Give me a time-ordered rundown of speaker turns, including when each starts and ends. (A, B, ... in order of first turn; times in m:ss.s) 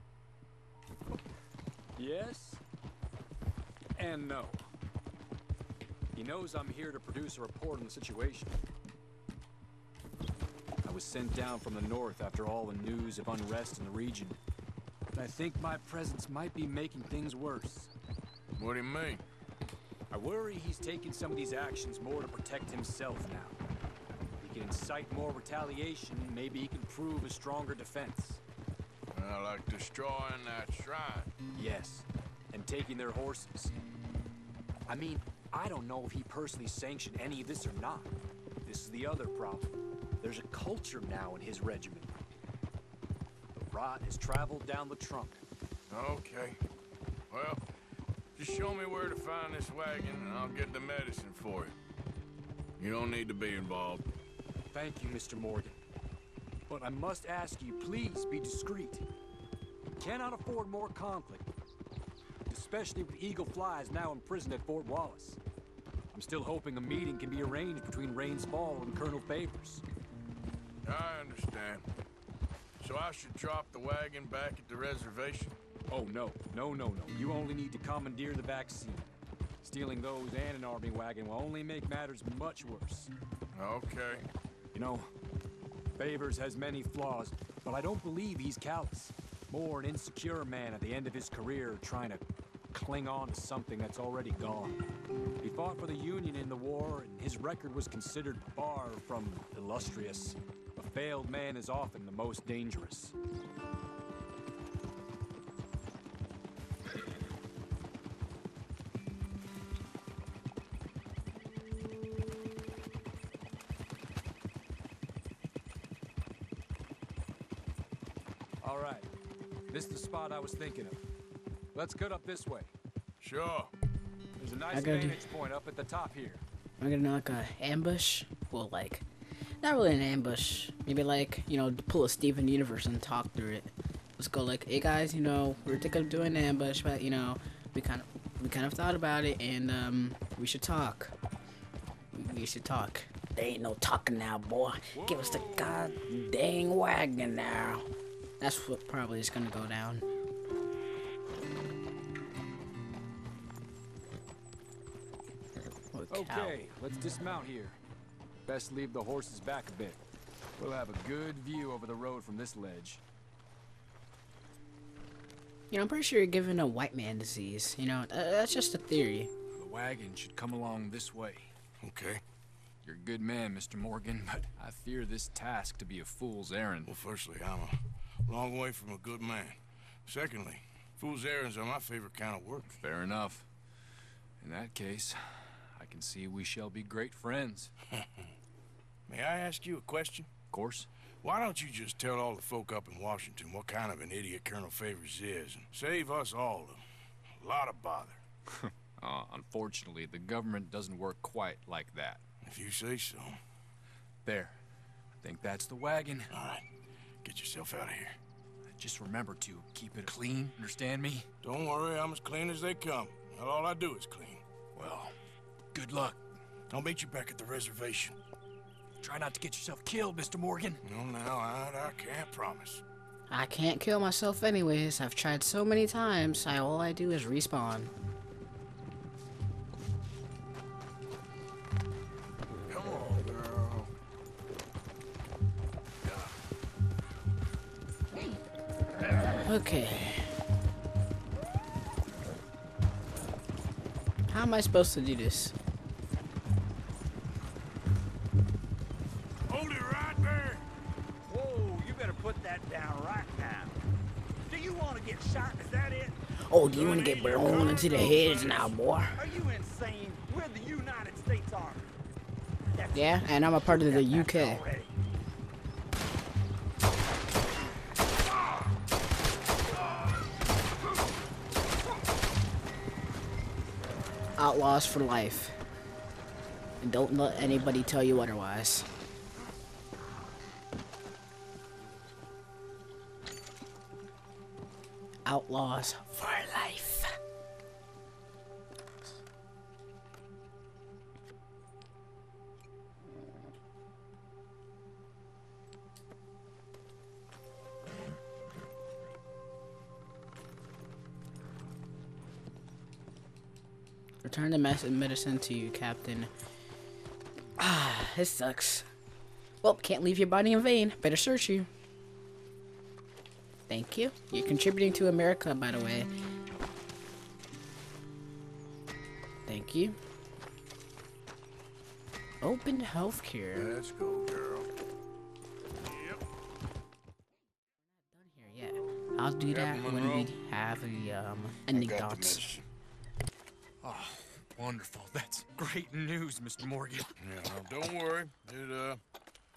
0:02.0-0:02.6 A
0:04.0-0:04.7 A
0:06.1-0:08.6 A
0:10.8-0:14.4 A
0:15.1-0:17.9 A
0:18.6-0:19.2 B
0:20.1-0:23.6 A
0:24.4-0:28.4 A
0:29.1-0:31.3 B
0:31.6-0:33.8 A
0:34.9-0:38.1 A
0:38.6-0:42.2 A
0:43.5-0:45.4 A
0:45.9-0:46.6 B
0:47.3-0:47.6 B
0:48.4-0:51.8 B
0:52.8-0:54.1 B
0:54.7-0:55.8 A
0:56.7-0:59.1 A
1:00.0-1:01.5 A
1:02.5-1:05.4 A
1:06.1-1:09.8 A
1:10.8-1:11.9 B
1:12.8-1:15.5 B
1:15.9-1:19.1 A
1:19.6-1:23.1 A
1:23.5-1:24.3 B
1:24.7-1:25.1 A
1:26.0-1:34.8 A
1:35.4-1:43.1 A
1:58.6-1:59.1 A
1:59.7-2:01.0 A
2:01.7-2:02.7 A
2:03.2-2:03.7 B
2:04.4-2:06.4 A
2:04.7-2:05.2 C
2:06.8-2:09.1 C
2:09.6-2:21.1 C
2:22.1-2:27.8 C
2:24.9-2:26.0 A
2:28.4-2:30.0 C
2:35.9-2:36.6 C
2:36.1-2:37.8 A
2:38.5-2:40.0 A
2:40.6-2:43.0 A
2:45.7-2:49.3 C
2:49.5-2:51.5 A
2:51.8-2:52.2 B
2:52.8-2:57.0 A
2:56.9-3:02.8 B
3:02.7-3:03.5 A
3:04.4-3:07.7 A
3:09.1-3:10.3 B
3:10.5-3:10.9 A
3:11.2-3:16.8 B
3:17.4-3:18.2 B
3:18.6-3:22.2 A
3:22.4-3:23.4 B
3:24.2-3:24.6 A
3:25.2-3:26.3 A
3:26.3-3:26.7 B
3:27.2-3:28.2 B
3:28.8-3:31.3 A
3:31.4-3:34.4 B
3:34.8-3:35.2 A
3:35.7-3:36.2 A
3:36.7-3:38.2 B
3:39.0-3:40.8 A
3:40.8-3:42.8 B
3:43.3-3:47.9 C
3:52.7-3:53.9 B
3:56.0-3:56.4 B
3:59.3-4:00.4 C
4:04.3-4:05.6 C
4:09.5-4:10.7 B
4:11.2-4:13.8 D
4:14.4-4:16.2 D
4:16.4-4:19.2 C
4:16.7-4:18.7 B
4:19.2-4:21.9 D
4:22.7-4:24.9 D
4:22.9-4:24.6 C
4:34.4-4:35.6 C
4:36.8-4:38.9 C
4:45.3-4:47.1 C
5:04.2-5:06.3 C
5:07.6-5:08.9 C
5:09.6-5:11.7 C
5:13.7-5:16.1 C
5:19.5-5:20.0 C
5:22.4-5:23.7 C
5:23.6-5:24.7 B
5:25.8-5:26.2 B
5:28.1-5:32.4 C
5:29.4-5:30.3 B
5:31.7-5:32.7 B
5:33.8-5:37.1 A
5:37.2-5:39.0 B